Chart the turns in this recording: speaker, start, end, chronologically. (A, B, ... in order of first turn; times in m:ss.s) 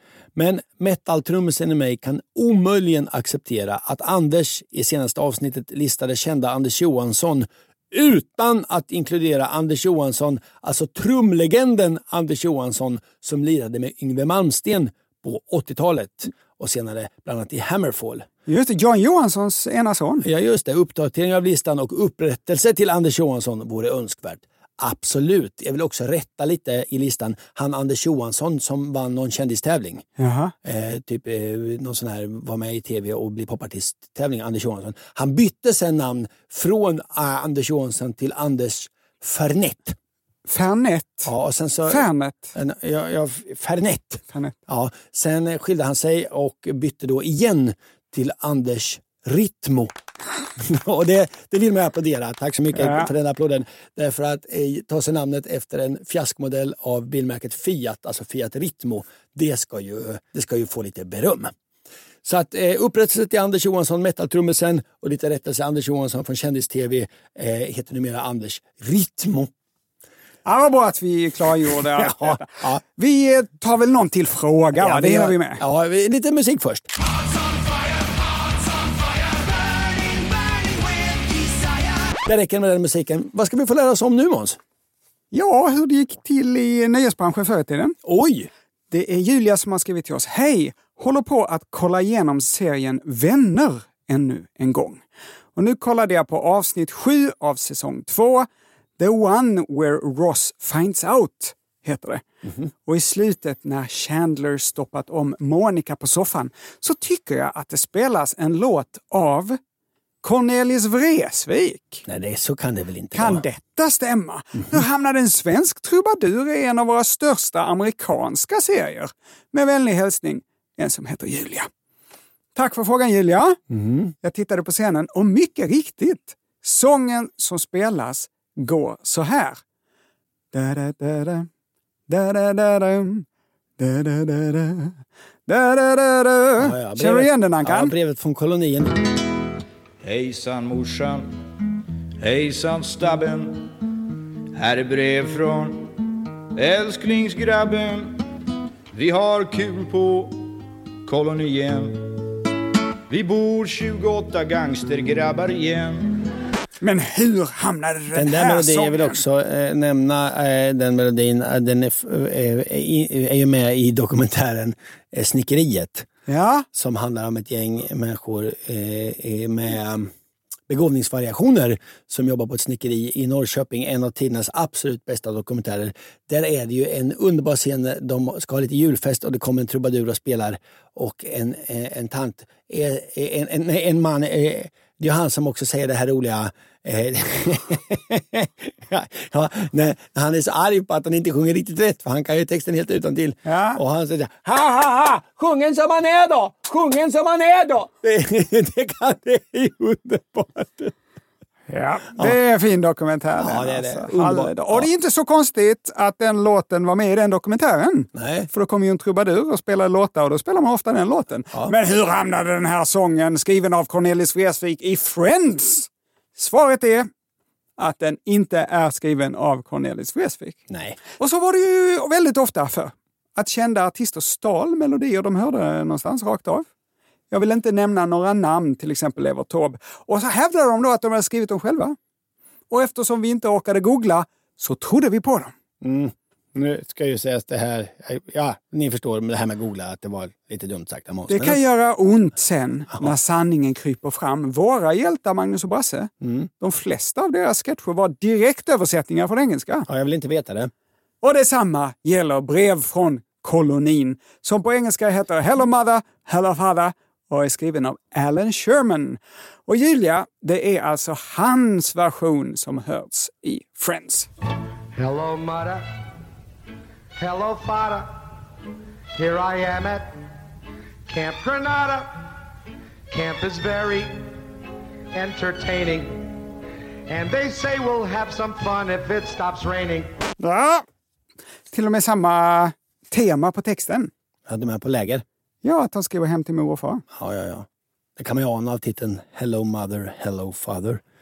0:00.3-0:18.3 A
0:18.5-0:20.2 B
0:20.2-0:30.0 A
0:30.2-0:30.5 B
0:30.6-0:40.0 A
0:40.5-0:41.3 B
0:41.2-0:49.9 A
0:41.9-0:42.5 B
0:50.6-1:01.5 A
0:52.7-0:53.1 B
1:02.2-1:09.5 A
1:10.4-1:15.6 B
1:11.9-1:12.8 A
1:14.8-1:16.9 A
1:22.2-1:24.6 A
1:25.3-1:27.9 B
1:28.0-1:28.5 A
1:28.9-1:35.0 B
1:35.6-1:38.5 B
1:39.0-1:42.2 B
1:42.8-1:49.6 B
1:50.2-1:52.0 B
1:52.0-1:53.4 A
1:53.1-2:01.7 B
2:02.5-2:03.6 B
2:03.7-2:04.1 A
2:04.2-2:09.6 B
2:10.5-2:11.5 B
2:12.1-2:13.2 B
2:13.8-2:14.9 B
2:15.5-2:17.9 B
2:16.6-2:19.0 A
2:20.0-2:21.3 C
2:22.2-2:23.7 C
2:24.5-2:26.0 C
2:26.6-2:28.2 C
2:28.9-2:30.4 C
2:31.0-2:32.1 C
2:33.1-2:36.2 C
2:36.8-2:39.2 B
2:38.1-2:46.1 A
2:46.3-2:46.6 B
2:46.7-2:50.1 A
2:50.7-3:20.9 A
3:13.4-3:13.8 B
3:21.7-3:37.1 B
3:23.4-3:24.9 A
3:28.1-3:28.5 A
3:37.8-3:40.6 B
3:40.7-3:41.0 A
3:41.2-3:46.7 B
3:47.3-3:52.0 B
3:52.7-3:55.5 B
3:55.8-4:01.6 A
4:01.3-4:09.9 B
4:06.2-4:06.5 A
4:09.9-4:10.7 A
4:11.2-4:24.3 B
4:24.9-4:25.8 D
4:27.2-4:28.3 D
4:29.2-4:30.2 D
4:31.1-4:32.4 D
4:33.1-4:34.3 D
4:35.1-4:36.4 D
4:37.1-4:40.1 D
4:40.4-4:40.8 B
4:41.7-4:44.1 B
4:44.5-4:45.2 A
4:45.6-4:47.0 B
4:47.1-4:51.0 A